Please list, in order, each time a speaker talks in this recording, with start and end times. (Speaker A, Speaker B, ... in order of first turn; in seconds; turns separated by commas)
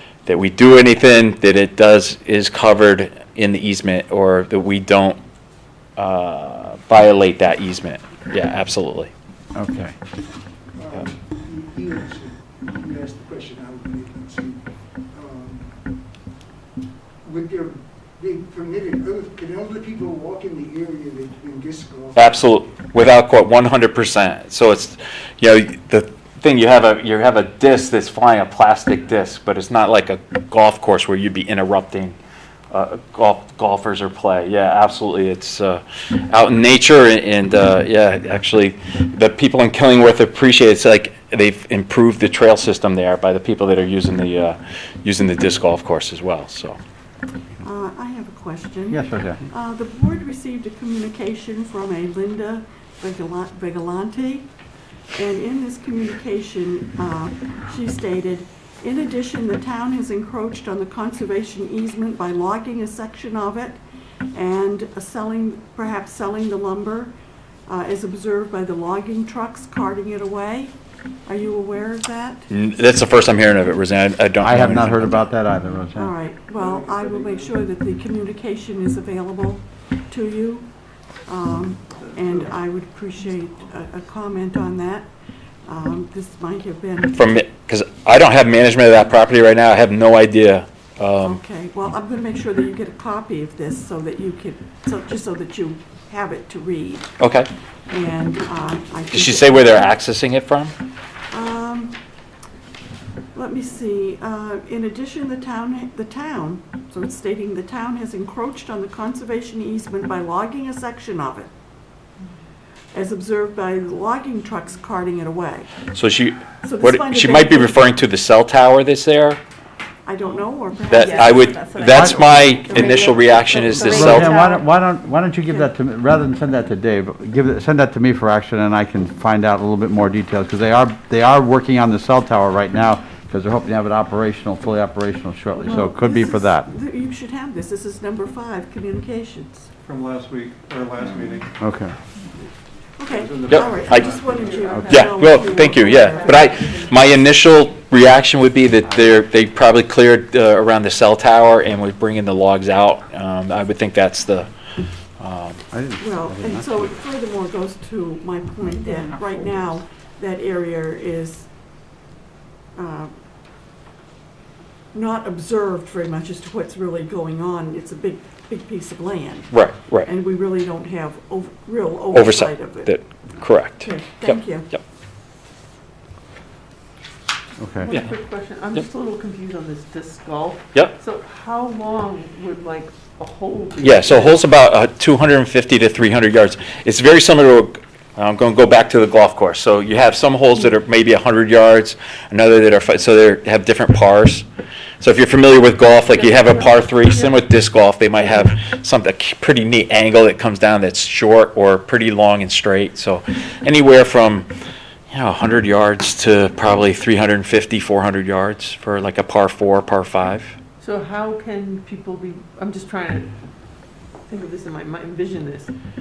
Speaker A: 0.2-5.2, Speaker A: 6.0-9.1, Speaker B: 9.5-9.9, Speaker C: 10.8-15.8, Speaker C: 17.2-22.3, Speaker A: 22.1-32.1, Speaker A: 32.7-46.8, Speaker D: 47.6-54.5, Speaker B: 48.9-49.4, Speaker D: 55.1-63.8, Speaker D: 64.3-67.1, Speaker D: 67.7-70.7, Speaker D: 71.2-72.5, Speaker A: 72.5-75.3, Speaker B: 74.4-76.1, Speaker D: 75.9-80.7, Speaker E: 76.7-77.1, Speaker C: 76.8-77.3, Speaker D: 81.3-85.1, Speaker D: 85.7-87.3, Speaker A: 87.1-91.4, Speaker D: 91.2-97.2, Speaker A: 97.2-97.5, Speaker D: 97.9-99.7, Speaker A: 99.1-100.7, Speaker D: 101.3-102.0, Speaker D: 103.3-111.5, Speaker D: 112.9-115.7, Speaker A: 115.9-119.4, Speaker D: 116.6-117.8, Speaker D: 120.0-121.3, Speaker A: 120.9-124.4, Speaker F: 120.9-124.6, Speaker B: 121.8-122.8, Speaker B: 123.6-136.7, Speaker D: 135.6-139.7, Speaker E: 139.8-141.6, Speaker B: 141.6-141.9, Speaker D: 143.0-146.5, Speaker E: 143.1-144.6, Speaker A: 143.5-144.1, Speaker F: 144.1-147.0, Speaker A: 144.9-154.5, Speaker A: 155.2-155.6, Speaker B: 155.7-156.9, Speaker D: 156.0-161.5, Speaker D: 162.8-163.1, Speaker D: 164.9-172.9, Speaker A: 169.5-170.1, Speaker A: 172.1-174.8, Speaker D: 173.8-174.7, Speaker B: 177.6-177.9, Speaker F: 177.8-184.4, Speaker A: 183.8-194.5, Speaker A: 195.0-204.5, Speaker F: 196.1-197.4, Speaker A: 205.1-210.6, Speaker F: 210.8-213.3, Speaker F: 214.3-215.7